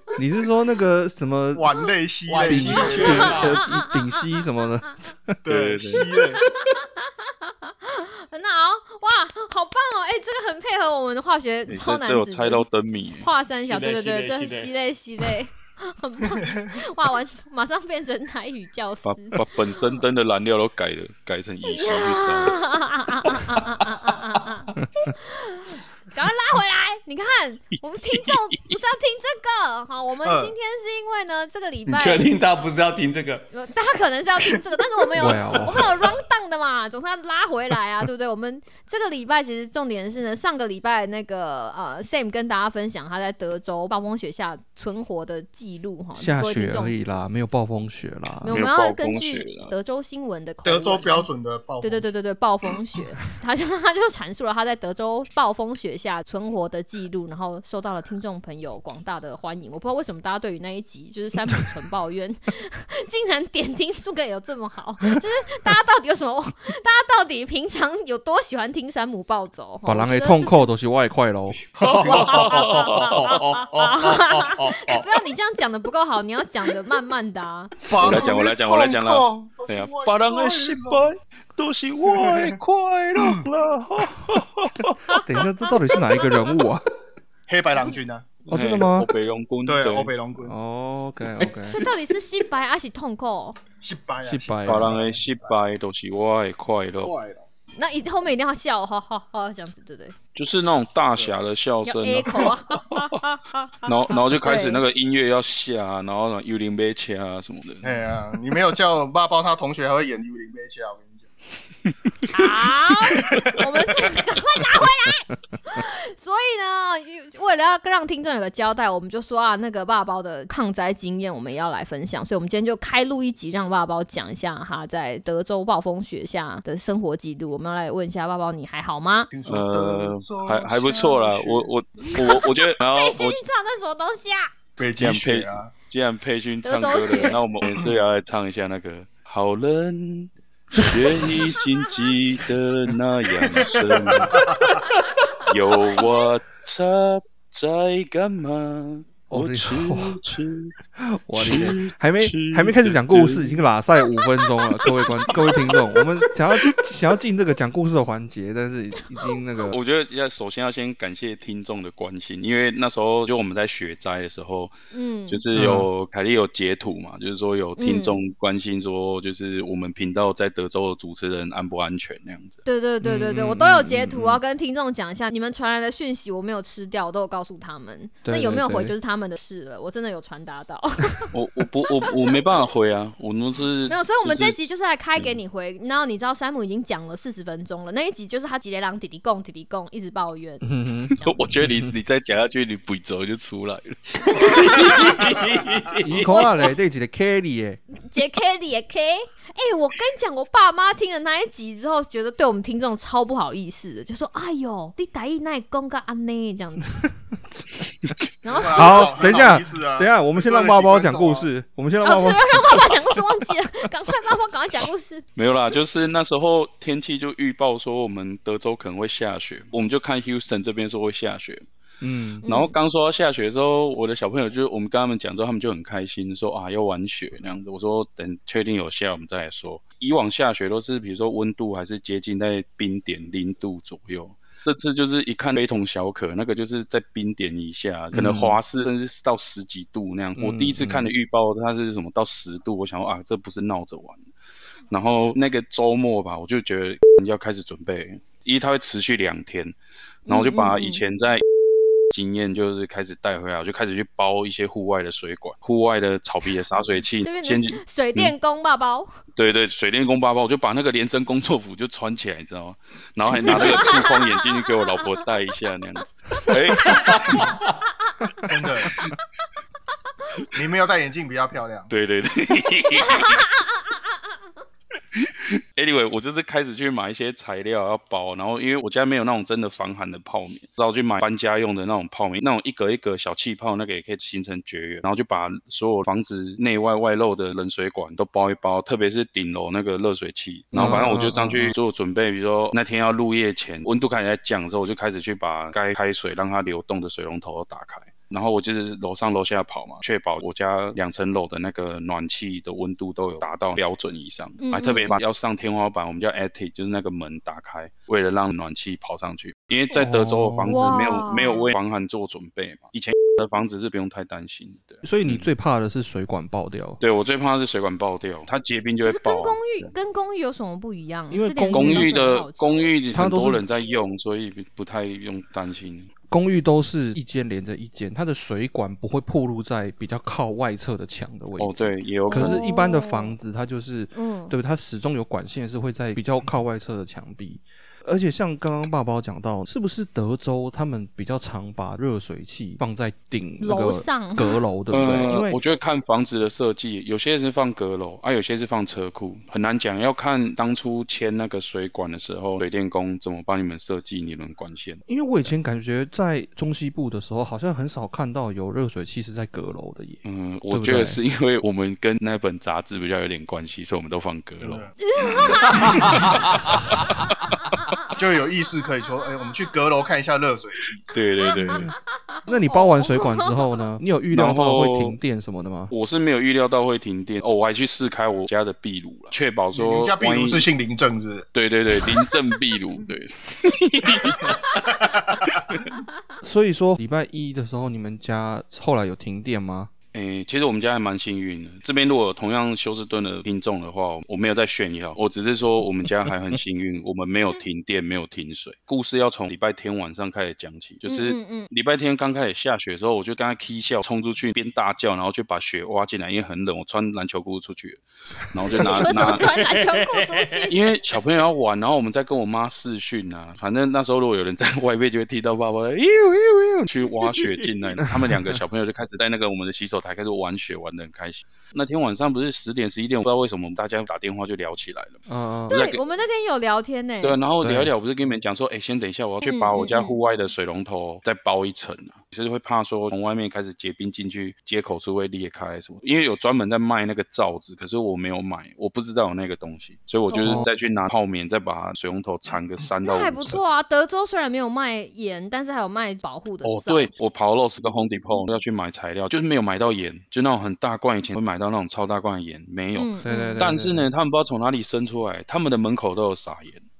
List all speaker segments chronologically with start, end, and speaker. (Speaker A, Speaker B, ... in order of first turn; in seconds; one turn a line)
Speaker A: 0.1-1.7
Speaker B: 1.5-3.4
Speaker C: 2.3-3.6
Speaker A: 2.5-5.4
Speaker D: 3.1-4.1
Speaker B: 5.4-6.4
Speaker E: 5.5-6.1
Speaker D: 6.4-12.7
Speaker E: 11.7-13.3
Speaker D: 13.2-20.0
Speaker C: 13.6-14.7
Speaker E: 19.0-22.6
Speaker D: 21.7-32.3
Speaker C: 24.4-24.7
Speaker B: 30.2-30.5
Speaker C: 31.9-33.5
Speaker D: 33.5-47.0
Speaker A: 35.1-35.9
Speaker A: 46.1-48.6
Speaker D: 48.4-51.3
Speaker E: 48.5-49.7
Speaker B: 50.6-52.1
Speaker D: 51.8-70.7
Speaker A: 69.8-71.6
Speaker C: 71.5-75.1
Speaker B: 71.9-72.5
Speaker D: 72.0-78.3
Speaker E: 72.3-73.2
Speaker B: 77.8-81.1
Speaker E: 78.0-85.2
Speaker B: 82.0-82.5
Speaker A: 85.1-86.9
Speaker B: 87.5-88.3
Speaker E: 88.4-90.1
Speaker A: 88.5-89.1
Speaker B: 89.7-90.5
Speaker A: 90.4-91.8
Speaker C: 91.4-91.8
Speaker D: 91.7-93.6
Speaker B: 93.8-95.5
Speaker A: 94.2-94.9
Speaker E: 94.7-97.1
Speaker B: 97.0-97.5
Speaker D: 97.8-100.2
Speaker E: 100.3-103.0
Speaker D: 101.8-104.8
Speaker E: 103.8-107.9
Speaker B: 107.8-111.3
Speaker D: 112.3-129.3
Speaker B: 113.1-113.6
Speaker B: 129.3-131.7
Speaker E: 129.5-133.4
Speaker D: 132.0-134.5
Speaker B: 134.8-135.7
Speaker E: 135.0-144.7
Speaker D: 136.6-137.4
Speaker A: 140.7-141.5
Speaker D: 141.2-142.1
Speaker B: 143.6-144.8
Speaker E: 145.4-150.7
Speaker A: 149.3-150.2
Speaker A: 151.0-159.8
Speaker E: 151.3-153.7
Speaker E: 154.8-155.5
Speaker E: 159.7-164.7
Speaker D: 164.9-165.4
Speaker E: 165.3-172.6
Speaker A: 165.5-165.9
Speaker D: 167.8-168.2
Speaker D: 172.6-181.3
Speaker A: 173.0-174.4
Speaker A: 178.2-178.9
Speaker E: 181.3-184.6
Speaker D: 182.0-182.3
Speaker D: 183.9-190.6
Speaker A: 190.6-191.1
Speaker E: 191.2-195.5
Speaker C: 194.2-196.2
Speaker D: 194.3-194.9
Speaker A: 196.0-197.8
Speaker D: 196.2-196.5
Speaker D: 198.1-206.9
Speaker D: 208.4-209.5
Speaker B: 208.5-211.5
Speaker A: 208.7-213.2
Speaker D: 212.0-215.2
Speaker E: 215.3-221.6
Speaker A: 222.0-222.4
Speaker D: 222.4-222.7
Speaker E: 222.5-244.2
Speaker A: 238.1-238.6
Speaker A: 240.3-241.1
Speaker E: 244.9-249.8
Speaker D: 250.3-251.0
Speaker E: 250.3-251.4
Speaker E: 252.1-258.3
Speaker D: 257.2-259.1
Speaker E: 259.4-267.5
Speaker D: 263.4-265.2
Speaker C: 266.8-267.7
Speaker D: 268.1-268.4
Speaker B: 268.4-269.0
Speaker B: 270.5-271.9
Speaker E: 271.9-273.5
Speaker D: 273.0-273.4
Speaker E: 275.1-315.5
Speaker A: 290.7-291.7
Speaker D: 304.6-305.2
Speaker A: 309.9-311.0
Speaker D: 310.7-311.7
Speaker A: 315.0-317.0
Speaker E: 317.0-319.9
Speaker D: 319.1-322.9
Speaker A: 321.3-322.1
Speaker E: 321.7-326.1
Speaker A: 323.1-323.7
Speaker A: 326.3-345.6
Speaker E: 331.6-332.7
Speaker D: 332.3-333.3
Speaker D: 334.1-334.6
Speaker D: 343.6-344.6
Speaker E: 344.9-355.0
Speaker A: 355.1-361.2
Speaker E: 360.2-367.9
Speaker B: 364.6-364.9
Speaker D: 365.0-366.0
Speaker C: 365.7-366.7
Speaker B: 368.1-371.1
Speaker E: 371.1-371.9
Speaker D: 371.4-371.9
Speaker A: 372.5-375.9
Speaker D: 372.7-373.7
Speaker E: 374.3-375.2
Speaker E: 375.9-380.7
Speaker B: 379.7-381.5
Speaker E: 381.5-384.6
Speaker B: 384.9-385.6
Speaker E: 385.4-385.8
Speaker A: 386.4-389.9
Speaker E: 390.1-409.5
Speaker D: 401.1-401.7
Speaker D: 408.7-410.7
Speaker C: 409.4-410.7
Speaker E: 410.7-426.0
Speaker A: 418.1-418.6
Speaker A: 425.3-425.8
Speaker D: 425.7-427.4
Speaker E: 427.2-443.6
Speaker A: 427.6-427.9
Speaker D: 429.4-430.1
Speaker D: 440.3-440.6
Speaker A: 440.4-440.7
Speaker D: 443.0-447.1
Speaker E: 446.6-456.8
Speaker D: 453.0-453.7
Speaker A: 453.2-454.1